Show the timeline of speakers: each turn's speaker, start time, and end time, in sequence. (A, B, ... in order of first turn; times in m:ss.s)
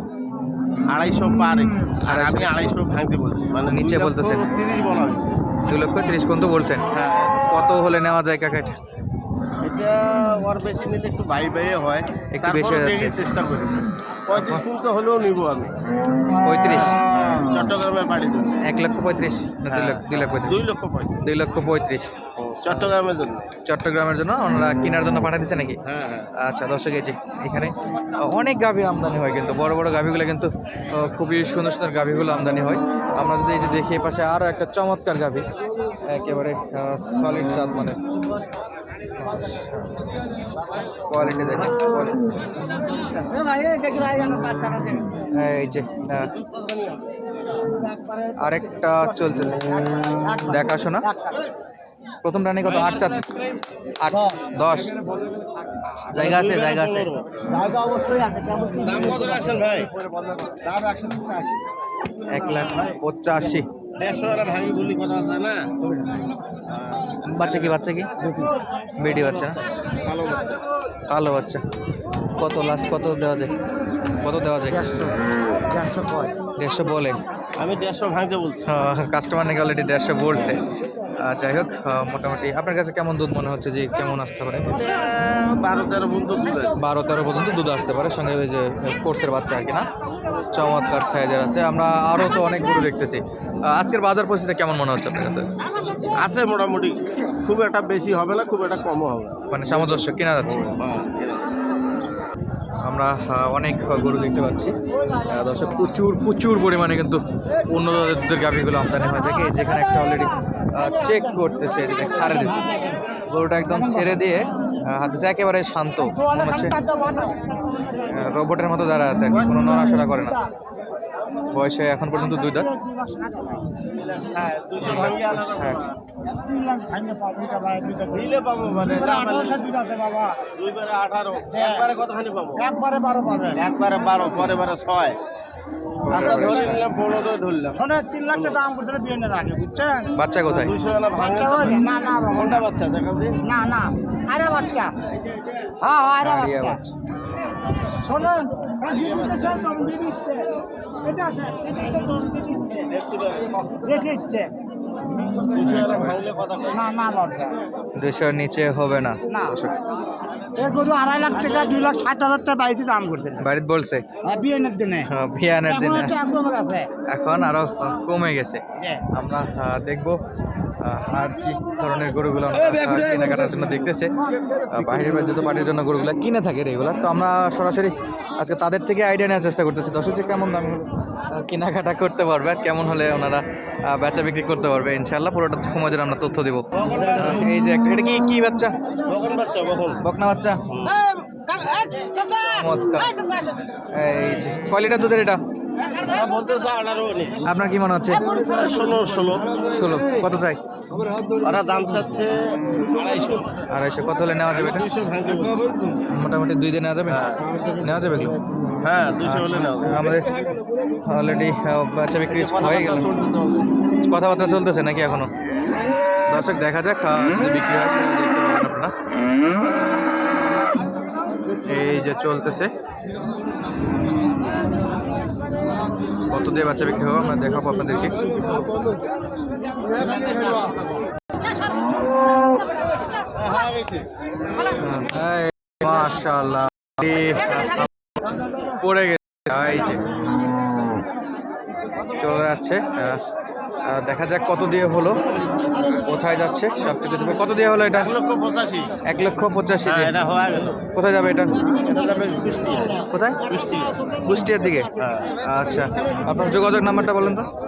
0:00.8-0:05.4 A
0:02.0-0:02.7 B
0:03.7-0:04.5 B
0:05.7-0:06.8 B
0:06.9-0:07.5 A
0:07.5-0:08.7 B
0:09.6-0:15.7 A
0:12.3-0:13.2 B
0:14.3-0:14.6 B
0:16.4-0:17.0 B
0:16.6-0:18.6 A
0:18.6-0:20.6 B
0:19.7-0:21.2 A
0:21.2-0:22.1 B
0:22.4-0:23.5 A
0:22.7-0:23.0 B
0:23.6-0:25.8 B
0:25.8-0:26.3 A
0:26.4-0:35.4 B
0:36.0-0:38.0 B
0:39.2-0:40.0 B
0:41.1-0:42.3 B
0:42.9-0:45.2 C
0:45.3-0:46.3 B
0:46.2-0:47.2 A
0:47.8-0:49.3 C
0:48.4-0:49.8 B
0:50.0-0:51.5 C
0:50.5-0:51.1 B
0:52.2-0:53.3 B
0:54.0-0:54.9 B
0:54.1-0:54.4 C
0:56.1-0:57.1 B
0:56.1-0:57.3 A
0:57.5-1:01.6 C
0:58.8-0:59.9 A
1:02.3-1:03.7 B
1:02.7-1:03.0 A
1:04.0-1:05.7 A
1:06.7-1:07.8 A
1:07.3-1:08.1 B
1:08.2-1:08.6 C
1:09.0-1:09.6 B
1:09.8-1:10.6 A
1:11.1-1:11.6 B
1:12.3-1:13.5 B
1:14.2-1:14.9 B
1:14.7-1:15.2 C
1:15.7-1:16.3 C
1:16.6-1:17.2 B
1:17.6-1:18.7 A
1:18.6-1:20.6 B
1:20.3-1:20.6 A
1:21.2-1:24.9 B
1:24.6-1:26.8 A
1:26.8-1:29.9 B
1:30.5-1:35.4 B
1:36.1-1:41.5 A
1:39.5-1:40.8 B
1:42.8-1:44.7 B
1:45.0-1:45.4 C
1:45.2-1:52.7 B
1:49.1-1:54.2 C
1:53.3-1:56.8 B
1:56.0-1:58.3 C
1:58.0-2:00.4 B
1:59.3-2:00.5 C
1:59.3-1:59.6 A
2:01.5-2:02.7 B
2:02.1-2:03.6 C
2:03.9-2:06.0 A
2:04.8-2:05.9 B
2:06.4-2:08.3 C
2:08.1-2:09.6 A
2:08.8-2:10.4 C
2:10.5-2:12.6 A
2:11.5-2:11.8 C
2:12.6-2:13.6 C
2:13.5-2:15.2 A
2:16.0-2:16.8 B
2:16.1-2:18.6 A
2:17.8-2:20.1 C
2:20.1-2:20.7 B
2:20.4-2:23.4 A
2:21.2-2:22.6 C
2:23.4-2:24.9 C
2:25.1-2:25.7 A
2:25.8-2:26.8 C
2:26.2-2:26.9 B
2:28.0-2:30.5 C
2:28.8-2:29.6 A
2:31.0-2:32.9 C
2:32.8-2:33.8 A
2:33.7-2:34.5 C
2:35.2-2:35.5 C
2:35.5-2:36.9 A
2:35.7-2:36.1 B
2:36.7-2:37.6 C
2:38.0-2:39.7 B
2:39.3-2:39.5 C
2:40.5-2:43.4 C
2:41.3-2:42.1 A
2:43.4-2:44.0 B
2:44.2-2:45.1 C
2:45.0-2:46.2 B
2:45.6-2:46.9 C
2:47.1-2:50.2 B
2:48.8-2:49.0 C
2:50.8-2:54.1 B
2:54.7-3:08.7 B
3:06.7-3:07.5 A
3:09.0-3:10.0 A
3:10.0-3:10.6 B
3:10.7-3:11.1 A
3:11.0-3:12.5 C
3:12.4-3:13.2 B
3:13.1-3:13.6 C
3:13.9-3:15.4 B
3:15.8-3:17.5 A
3:17.4-3:18.3 B
3:18.2-3:19.6 A
3:19.6-3:20.6 B
3:21.4-3:23.6 A
3:23.7-3:24.9 B
3:24.5-3:25.8 A
3:26.1-3:28.4 B
3:27.1-3:27.5 A
3:28.8-3:30.2 A
3:29.2-3:30.3 B
3:31.0-3:33.1 B
3:32.3-3:33.7 A
3:34.0-3:35.3 B
3:36.3-3:38.9 B
3:41.6-3:42.7 B
3:46.3-3:48.2 B
3:53.2-3:54.1 A
3:54.7-3:57.9 B
3:58.6-4:00.0 B
4:02.2-4:03.2 B
4:03.8-4:05.2 B
4:06.0-4:08.1 B
4:07.9-4:09.0 A
4:09.0-4:10.1 B
4:09.8-4:10.8 A
4:10.9-4:11.5 B
4:11.8-4:15.3 A
4:13.1-4:13.4 B
4:14.2-4:14.9 B
4:15.4-4:17.5 B